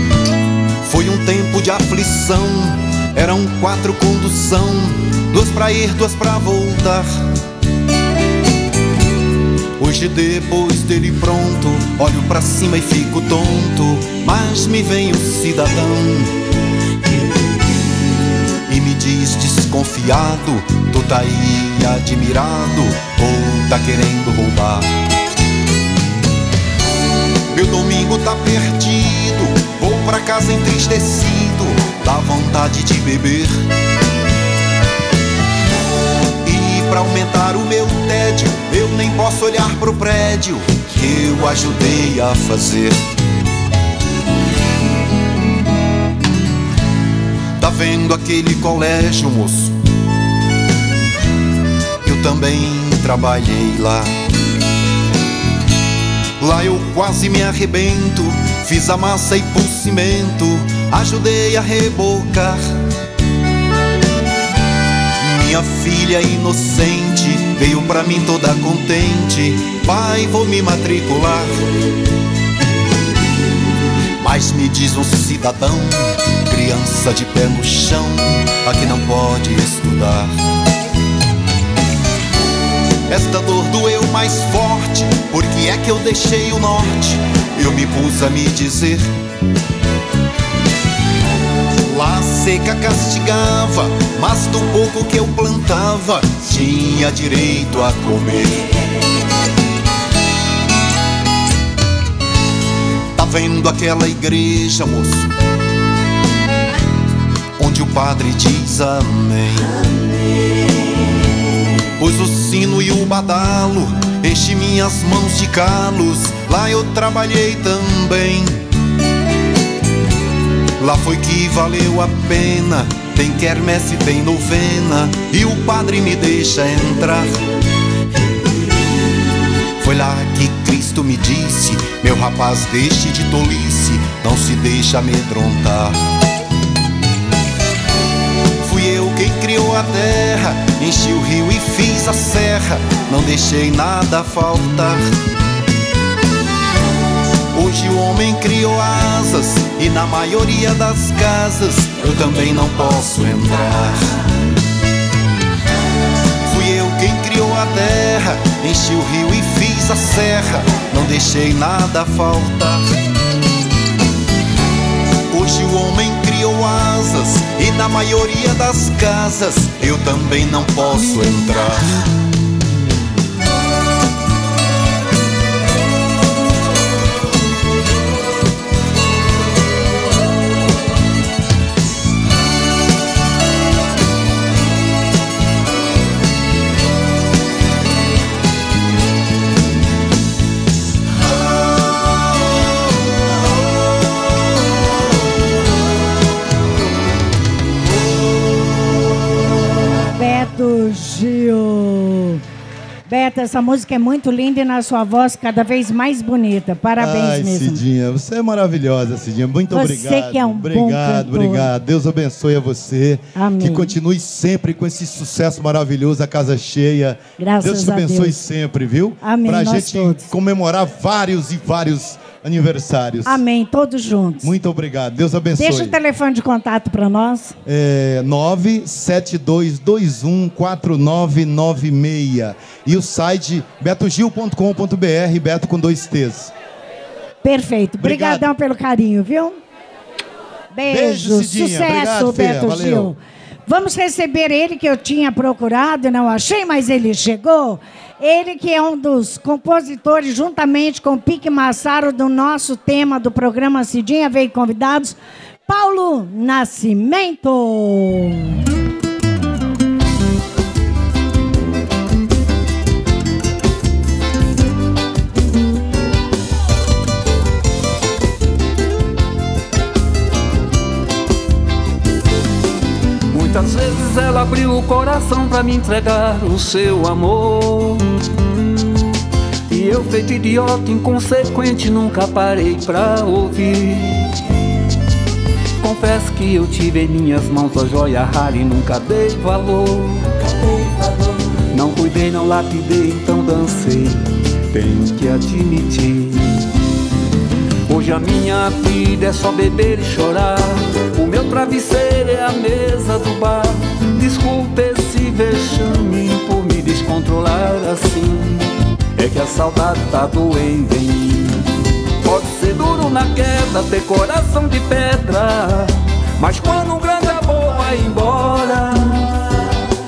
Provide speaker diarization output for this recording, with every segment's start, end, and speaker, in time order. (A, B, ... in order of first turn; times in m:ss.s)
0:00.8-0:07.1 A
0:09.8-0:16.3 A
0:18.7-0:24.9 A
0:27.5-0:33.6 A
0:36.4-0:43.0 A
0:47.6-0:49.7 A
0:52.0-0:54.1 A
0:56.4-1:02.6 A
1:05.2-1:11.5 A
1:14.2-1:20.3 A
1:23.1-1:29.1 A
1:31.8-1:38.7 A
1:43.1-1:45.3 A
1:47.6-1:49.7 A
1:52.0-1:58.6 A
2:00.8-2:07.3 A
2:09.8-2:16.0 A
2:18.6-2:25.0 A
2:27.5-2:34.1 A
2:36.4-2:42.8 A
2:45.3-2:51.9 A
3:20.2-3:22.4 B
3:23.1-3:27.8 B
3:27.0-3:43.4 C
3:29.7-3:31.7 B
3:33.3-3:33.9 B
3:37.4-3:38.4 B
3:39.2-3:40.3 B
3:43.2-3:44.5 B
3:44.4-3:46.0 C
3:45.6-3:47.6 B
3:47.6-3:56.5 C
3:57.4-3:59.6 B
3:58.0-3:58.4 C
4:00.7-4:18.6 B
4:00.9-4:03.1 C
4:33.3-4:38.0 D
4:39.7-4:44.3 D
4:45.8-4:51.1 D
4:51.7-4:56.6 D
4:57.9-5:11.6 D
5:12.2-5:19.6 D